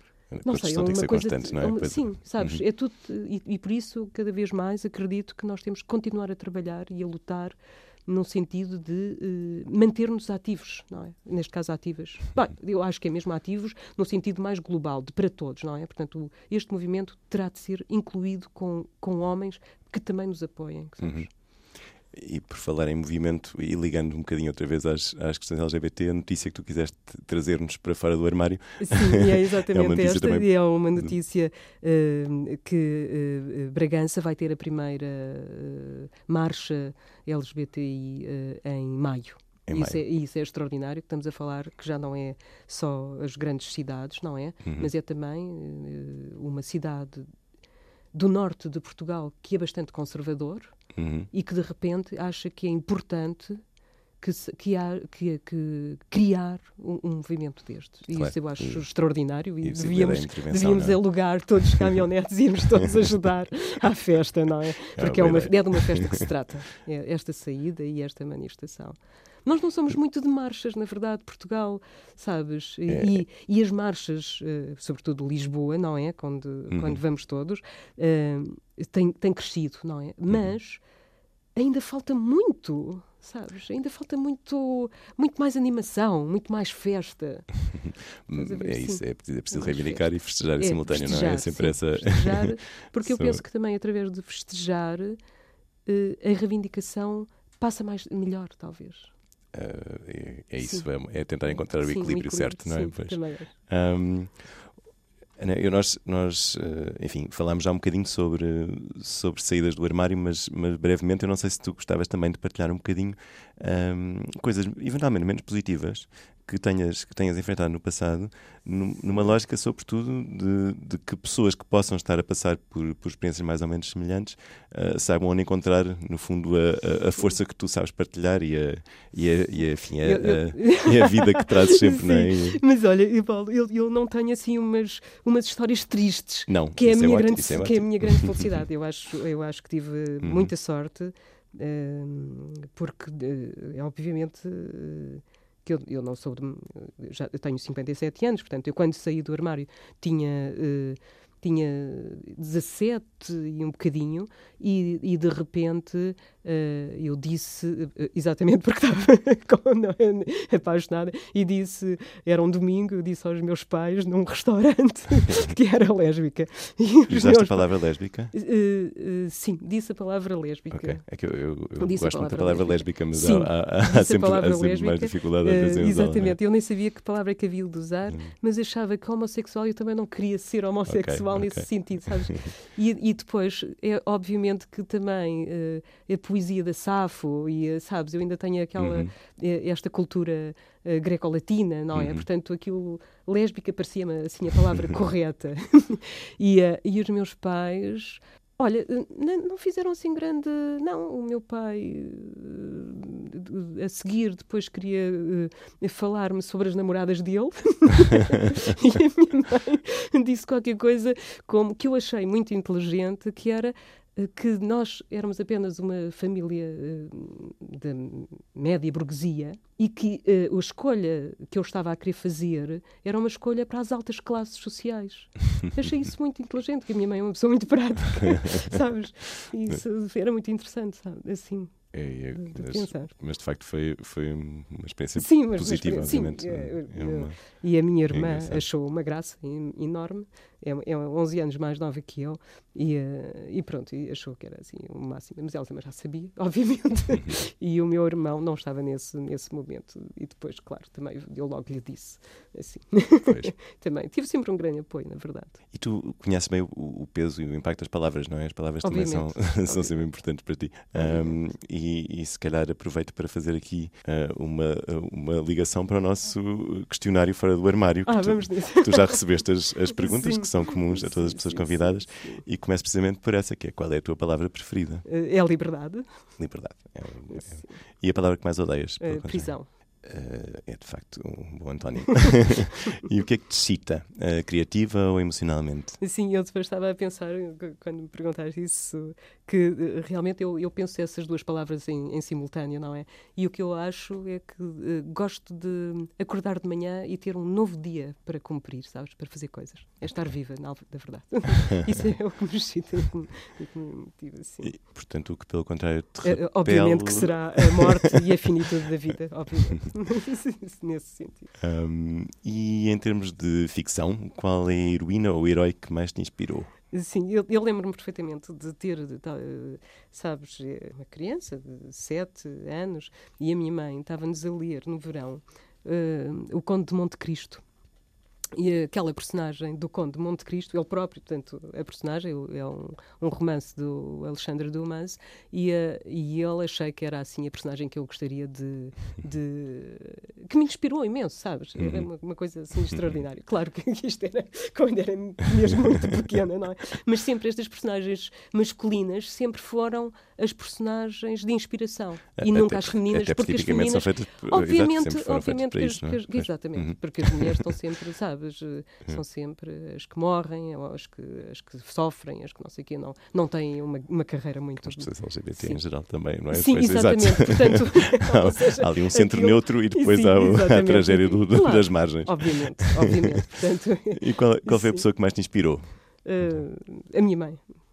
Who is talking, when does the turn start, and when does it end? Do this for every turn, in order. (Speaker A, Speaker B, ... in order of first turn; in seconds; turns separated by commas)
Speaker A: 0.3-2.6, Speaker B: 0.4-21.3, Speaker A: 21.0-31.1, Speaker B: 28.8-47.3, Speaker A: 39.7-40.0, Speaker A: 44.6-44.9, Speaker B: 48.1-53.6, Speaker A: 51.0-51.3, Speaker B: 54.2-80.8, Speaker A: 58.1-58.9, Speaker A: 59.6-61.0, Speaker A: 65.0-66.2, Speaker A: 72.9-73.2, Speaker A: 76.7-77.0, Speaker B: 81.5-87.6, Speaker A: 87.7-93.4, Speaker B: 88.3-95.2, Speaker B: 95.9-99.1, Speaker A: 99.5-104.7, Speaker B: 100.6-100.9, Speaker B: 101.6-103.5, Speaker A: 105.4-132.6, Speaker B: 130.0-167.7, Speaker A: 136.5-138.5, Speaker A: 140.2-140.5, Speaker A: 167.1-168.3, Speaker B: 168.3-171.2, Speaker A: 170.7-176.4, Speaker B: 171.8-233.1, Speaker A: 180.9-182.4, Speaker A: 188.8-189.1, Speaker A: 191.9-192.2, Speaker A: 231.9-238.6, Speaker B: 235.2-255.6, Speaker A: 253.2-253.6, Speaker A: 255.7-275.1, Speaker B: 258.8-260.1, Speaker B: 260.9-261.4, Speaker B: 268.1-272.5, Speaker B: 275.1-276.4, Speaker A: 276.4-286.0, Speaker B: 277.3-277.8, Speaker B: 279.0-279.7, Speaker B: 286.0-304.8, Speaker A: 304.6-308.2, Speaker B: 306.2-311.5, Speaker A: 311.6-316.7, Speaker B: 316.9-327.6, Speaker B: 328.5-365.8, Speaker A: 341.8-342.1, Speaker A: 352.4-357.6, Speaker A: 364.8-373.1, Speaker B: 366.5-375.1, Speaker A: 374.1-376.6, Speaker B: 376.2-377.7